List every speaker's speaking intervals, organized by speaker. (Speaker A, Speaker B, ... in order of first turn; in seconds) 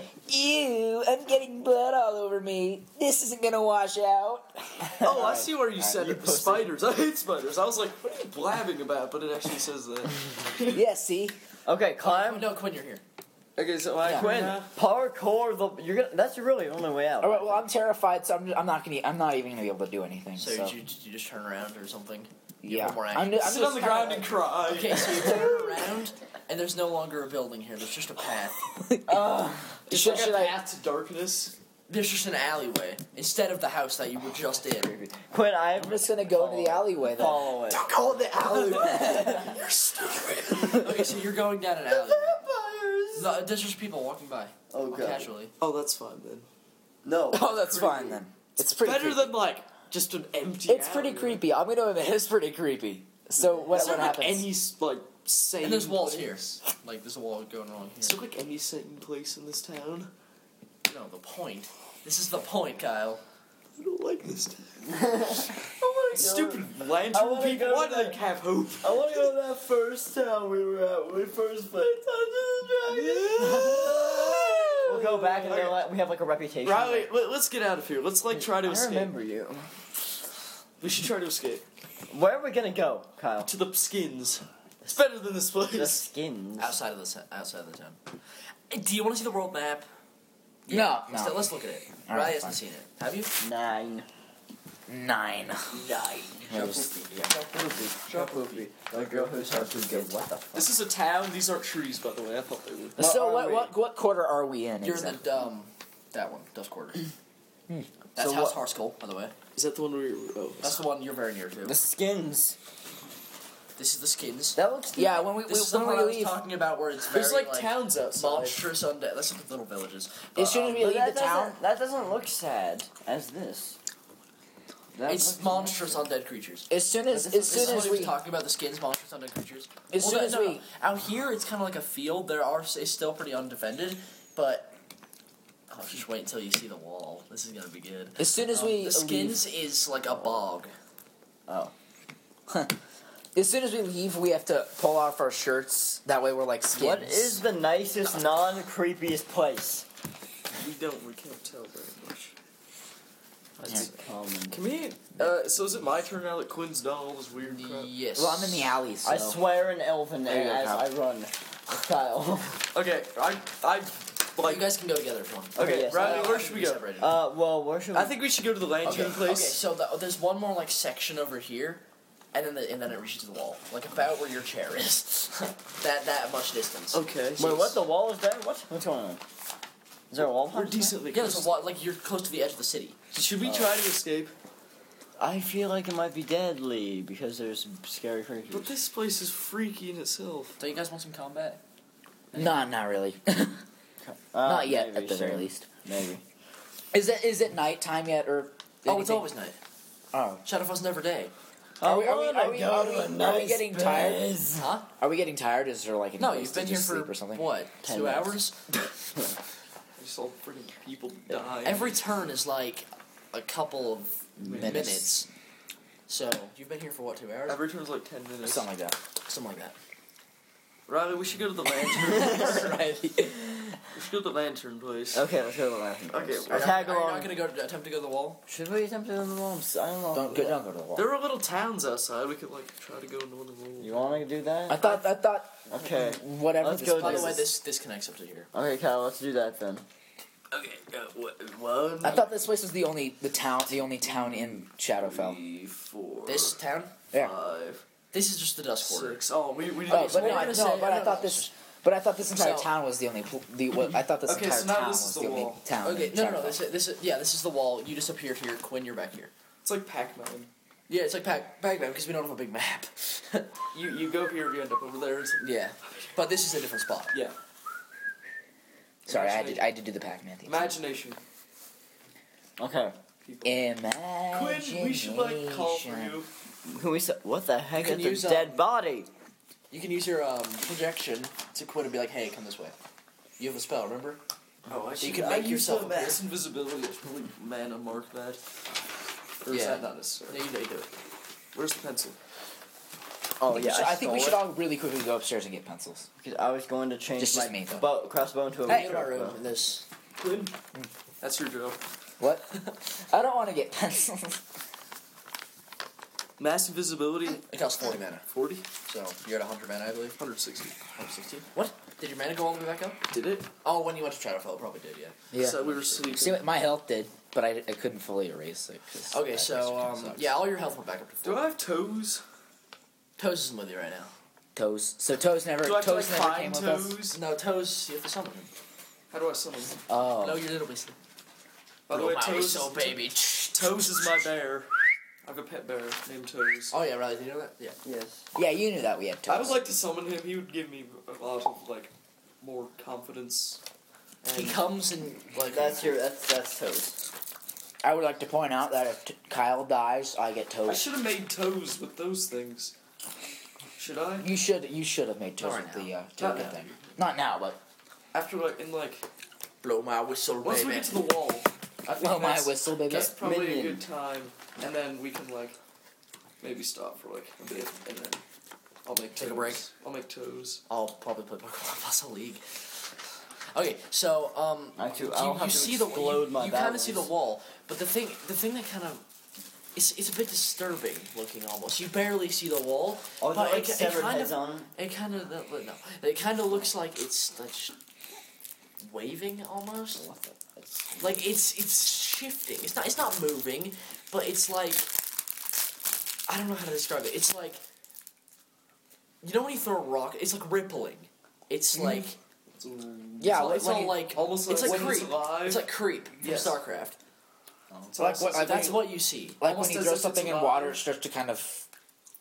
Speaker A: 0.2-5.8, 10.7-11.4, 14.0-14.3, 17.2-20.8, 22.6-24.2, 28.7-30.6, 35.8-37.6, 38.5-39.5, 47.3-49.4, 50.7-54.5, 90.7-91.5, 92.0-92.6, 94.9-95.8, 96.5-96.9, 103.0-105.2, 114.6-116.4, 120.3-121.6, 126.7-128.2, 129.9-130.6, 138.2-139.4, 142.5-142.7, 143.3-147.4, 158.1-159.4, 160.2-160.9, 192.3-193.6, 194.4-195.7, 196.9-199.3, 200.1-200.4, 201.8-204.2, 205.0-207.5, 214.4-215.1, 218.4-219.0, 222.1-223.8, 230.1-231.1, 234.7-237.5, 242.0-245.4, 249.9-256.6, 269.1-270.8, 273.4-276.2, 293.5-296.1, 297.2-297.9, 302.2-304.4, 315.3-315.6, 316.1-320.3, 324.5-327.0, 329.9-330.4, 338.3-339.6, 347.8-350.9, 354.2-357.6, 361.9-363.1, 401.7-402.1, 403.2-404.0, 408.0-411.6
Speaker B: 5.0-10.8, 13.6-14.7, 23.4-25.6, 29.9-31.5, 37.7-41.0, 45.6-46.5, 48.7-51.4, 53.7-56.6, 58.0-60.1, 63.8-64.9, 65.6-69.3, 72.9-75.8, 76.6-79.1, 80.8-81.6, 83.5-86.0, 98.1-99.6, 100.5-103.0, 109.5-110.8, 117.1-118.7, 150.6-152.3, 154.5-157.9, 162.7-164.7, 165.6-166.9, 167.9-169.6, 176.9-177.8, 180.4-181.5, 183.1-184.3, 188.5-190.6, 210.0-212.0, 214.4-214.9, 217.4-218.7, 220.9-222.7, 223.9-225.3, 226.1-226.8, 230.9-234.2, 240.5-242.3, 245.0-246.6, 247.1-247.8, 248.8-250.9, 254.2-255.6, 259.6-260.5, 263.7-265.5, 269.1-269.7, 270.4-271.2, 273.2-273.6, 274.3-276.3, 284.7-288.4, 289.4-290.4, 291.5-292.2, 300.2-300.5, 301.2-301.8, 306.4-307.4, 308.3-308.6, 310.2-310.7, 313.1-313.5, 315.3-316.4, 321.2-322.2, 325.6-327.2, 329.1-329.8, 331.9-336.7, 339.3-343.6, 344.3-344.6, 350.6-352.7, 353.8-354.3, 356.2-356.8, 358.1-359.1, 360.4-361.5, 362.4-365.6, 366.4-368.2, 368.8-370.6, 402.5-406.6, 407.9-408.9, 409.4-410.8
Speaker C: 5.1-6.7, 11.7-12.5, 14.0-17.6, 29.1-29.8, 34.7-37.9, 38.6-39.5, 41.9-43.5, 44.7-45.3, 47.0-48.2, 53.4-53.7, 64.8-68.2, 68.8-77.1, 78.3-79.7, 82.1-83.5, 85.7-86.8, 93.4-94.1, 97.3-100.7, 103.0-103.7, 108.2-108.6, 111.6-112.6, 114.5-115.1, 120.8-123.8, 124.9-126.0, 127.4-127.9, 141.5-141.7, 146.7-149.8, 153.6-154.6, 159.0-162.7, 165.5-166.4, 167.0-168.1, 177.4-179.2, 180.1-181.0, 183.4-183.7, 185.2-188.7, 194.0-196.2, 201.8-204.7, 207.8-208.4, 225.1-227.4, 228.5-230.6, 233.8-234.8, 235.7-237.4, 238.5-239.8, 272.6-272.9, 276.6-279.1, 293.4-294.5, 296.2-299.4, 337.8-338.2, 345.5-347.0, 363.2-363.8, 374.8-377.1, 383.2-384.7, 389.9-391.3
Speaker D: 12.0-13.0, 20.4-23.6, 24.6-28.6, 31.9-34.9, 40.7-42.3, 43.1-45.5, 53.8-54.2, 55.6-58.2, 60.9-63.2, 86.6-88.0, 88.7-89.9, 90.7-93.3, 95.7-97.4, 98.1-100.1, 104.8-107.0, 108.2-109.3, 110.6-111.8, 113.8-114.6, 115.4-120.8, 125.0-134.7, 135.7-140.7, 157.4-158.7, 164.4-167.1, 168.8-177.0, 181.1-183.0, 190.6-191.6, 198.8-199.6, 200.4-201.3, 204.6-204.9, 206.2-208.6, 211.6-215.3, 216.1-217.6, 219.2-219.8, 226.5-228.4, 234.7-235.0, 236.9-238.5, 246.2-247.0, 248.1-249.2, 249.9-251.5, 252.3-252.7, 255.8-259.3, 260.9-263.5, 265.4-267.1, 277.8-278.6, 279.7-282.7, 283.4-284.2, 285.0-286.2, 289.5-290.9, 298.6-299.9, 307.5-308.2, 308.8-310.1, 310.9-313.0, 313.6-316.2, 319.1-321.5, 323.2-324.1, 327.1-328.5, 330.2-330.9, 331.9-334.1, 336.7-337.8, 344.2-346.0, 355.4-356.5, 359.6-361.0, 361.8-362.5, 369.1-369.6, 370.7-372.6, 373.5-379.0, 379.7-387.7, 388.8-390.0, 391.0-394.9, 396.3-397.6, 399.2-402.2, 403.3-406.9, 408.0-409.4